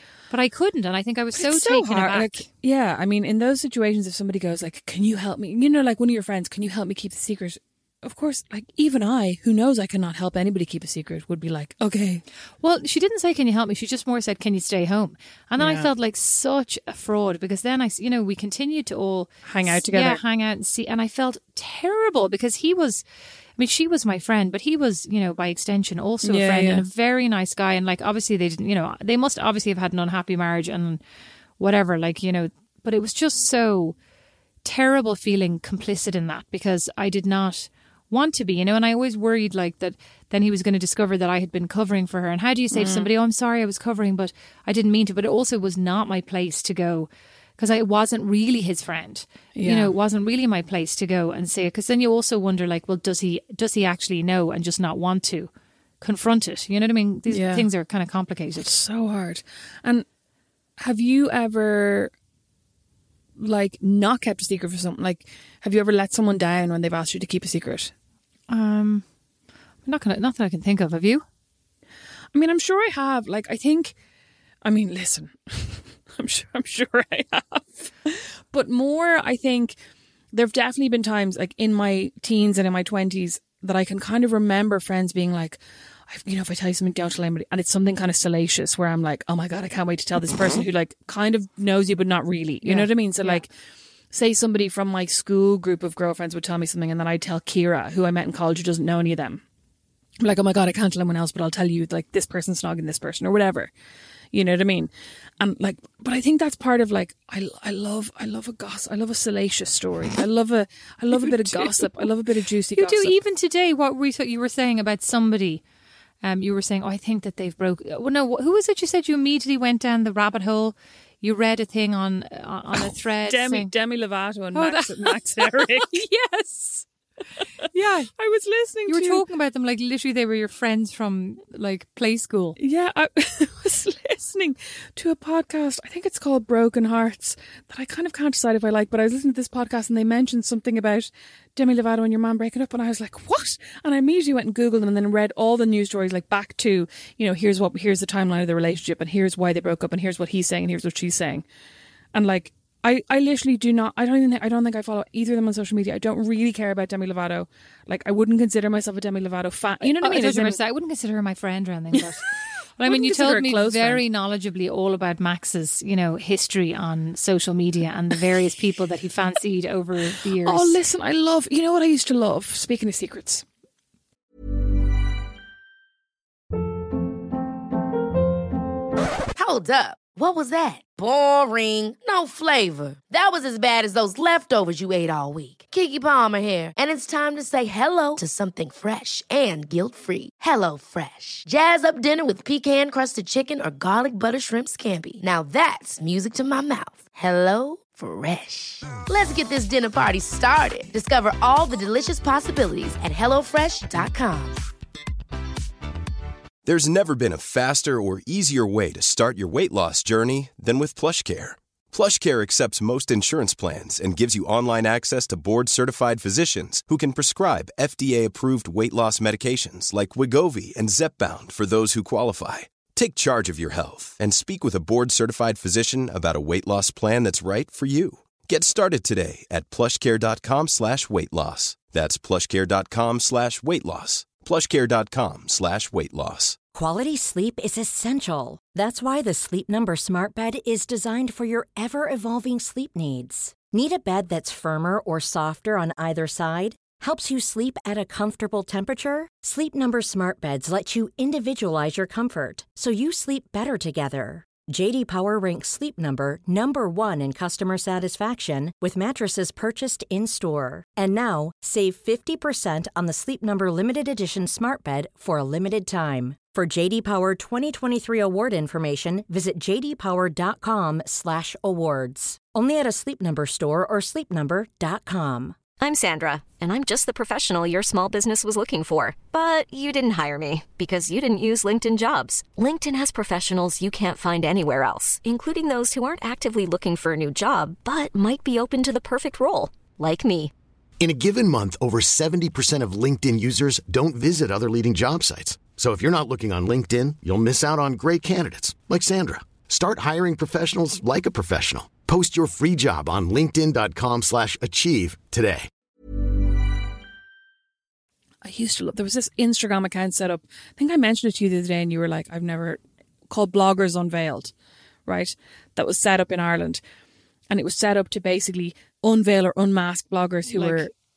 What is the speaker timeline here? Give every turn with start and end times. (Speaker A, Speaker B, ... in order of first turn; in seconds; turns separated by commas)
Speaker A: 0.3-2.4, Speaker B: 1.3-12.2, Speaker A: 12.6-23.0, Speaker B: 15.6-15.9, Speaker B: 19.4-20.2, Speaker A: 23.6-31.0, Speaker B: 26.2-26.8, Speaker A: 31.6-34.0, Speaker A: 34.6-55.5, Speaker B: 42.7-43.1, Speaker B: 49.5-49.9, Speaker A: 56.0-58.8, Speaker B: 57.3-57.6, Speaker B: 58.6-60.0, Speaker B: 60.8-62.1, Speaker B: 63.4-67.9, Speaker A: 68.5-69.0, Speaker A: 69.8-71.2, Speaker B: 72.3-73.9, Speaker B: 74.6-79.8, Speaker B: 80.3-93.5, Speaker A: 92.6-93.4, Speaker B: 94.1-99.4, Speaker B: 100.2-103.7, Speaker B: 104.3-113.1, Speaker A: 111.1-112.1, Speaker A: 112.7-115.6, Speaker A: 116.2-123.7, Speaker B: 122.9-126.0, Speaker A: 124.5-126.9, Speaker A: 127.7-128.1, Speaker B: 128.1-129.2, Speaker A: 128.9-132.6, Speaker B: 132.6-151.4, Speaker B: 152.1-160.6, Speaker A: 159.8-162.2, Speaker A: 162.8-170.8, Speaker B: 162.8-164.0, Speaker B: 170.4-173.4, Speaker C: 179.3-204.6, Speaker D: 206.6-236.6, Speaker E: 236.7-275.6, Speaker F: 275.8-290.5, Speaker G: 291.0-305.7, Speaker B: 308.4-314.5, Speaker B: 315.1-316.8, Speaker B: 317.5-320.9, Speaker A: 320.5-320.9